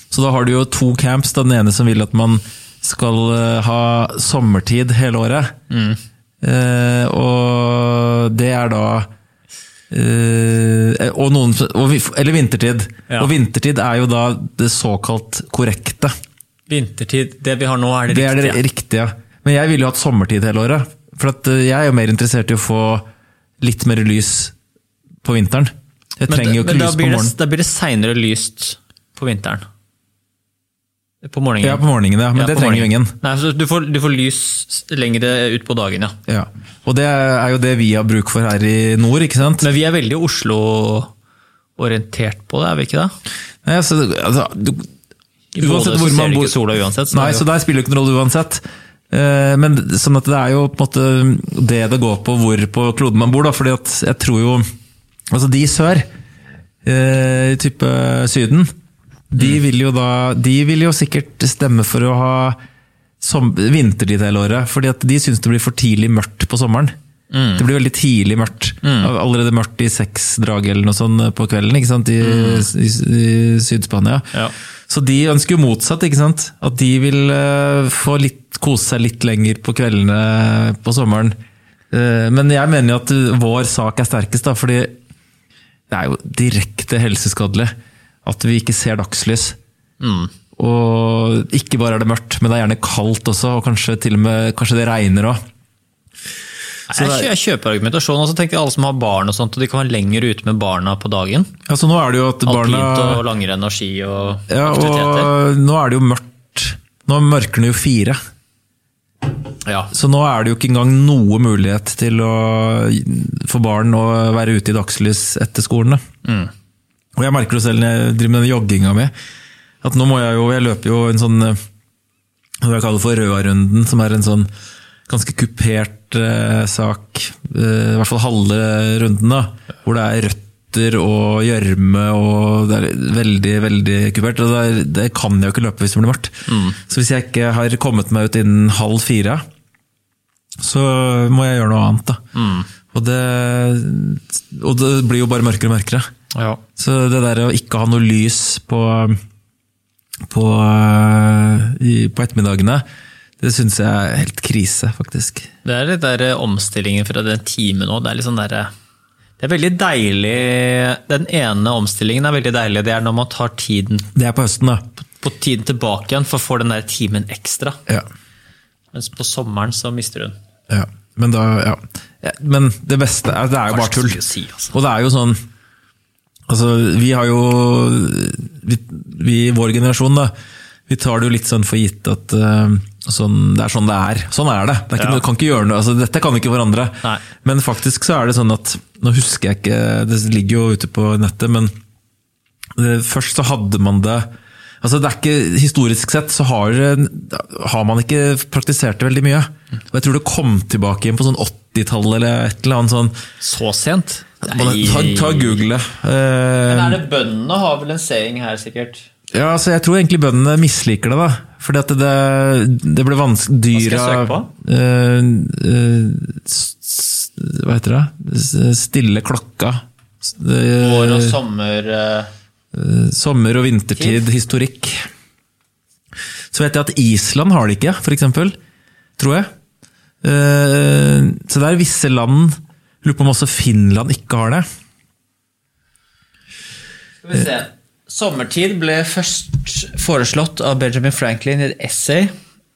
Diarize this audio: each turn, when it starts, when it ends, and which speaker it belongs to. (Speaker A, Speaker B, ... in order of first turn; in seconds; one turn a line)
Speaker A: 0.1-5.5
Speaker B: 5.7-6.0
Speaker A: 6.4-9.1
Speaker A: 9.9-16.1
Speaker B: 16.7-18.6
Speaker A: 18.1-23.0
Speaker A: 23.6-24.5
Speaker A: 25.2-27.3
Speaker B: 26.2-29.6
Speaker B: 31.2-36.1
Speaker A: 31.6-33.1
Speaker A: 36.3-39.6
Speaker B: 39.6-41.1
Speaker B: 41.8-43.1
Speaker A: 43.6-44.9
Speaker B: 45.5-47.4
Speaker A: 45.6-46.5
Speaker A: 47.1-54.6
Speaker A: 55.3-56.0
Speaker A: 56.8-58.7
Speaker A: 59.3-62.6
Speaker A: 63.2-66.9
Speaker B: 67.3-67.6
Speaker A: 67.6-74.3
Speaker B: 68.8-69.1
Speaker B: 72.2-72.7
Speaker A: 74.9-81.3
Speaker A: 81.9-84.9
Speaker A: 85.9-87.7
Speaker A: 88.2-89.5
Speaker B: 90.0-90.3
Speaker A: 90.6-95.4
Speaker A: 96.9-97.3
Speaker B: 96.9-101.5
Speaker A: 101.7-103.2
Speaker B: 102.5-105.3
Speaker A: 104.5-108.2
Speaker B: 109.6-109.9
Speaker A: 109.9-116.0
Speaker B: 116.2-116.5
Speaker A: 117.2-119.1
Speaker A: 119.8-121.5
Speaker A: 122.6-124.5
Speaker A: 125.1-139.4
Speaker B: 136.5-136.8
Speaker A: 140.6-142.2
Speaker B: 142.3-142.7
Speaker A: 142.9-146.1
Speaker B: 146.3-146.6
Speaker A: 146.8-149.2
Speaker A: 150.3-152.8
Speaker A: 153.4-155.5
Speaker B: 155.6-158.7
Speaker B: 159.4-164.1
Speaker A: 164.1-164.8
Speaker B: 165.2-167.8
Speaker B: 168.9-170.3
Speaker A: 170.7-174.2
Speaker B: 173.7-174.7
Speaker A: 174.7-175.4
Speaker A: 176.5-180.3
Speaker A: 180.9-191.7
Speaker B: 184.9-185.2
Speaker A: 192.8-194.2
Speaker A: 194.8-203.1
Speaker B: 203.4-205.6
Speaker A: 204.4-207.0
Speaker B: 206.7-209.1
Speaker A: 209.3-221.4
Speaker B: 213.7-214.5
Speaker B: 220.8-222.3
Speaker A: 222.7-225.0
Speaker B: 224.0-224.2
Speaker A: 226.5-228.6
Speaker A: 229.2-229.5
Speaker A: 230.2-234.6
Speaker B: 237.2-242.3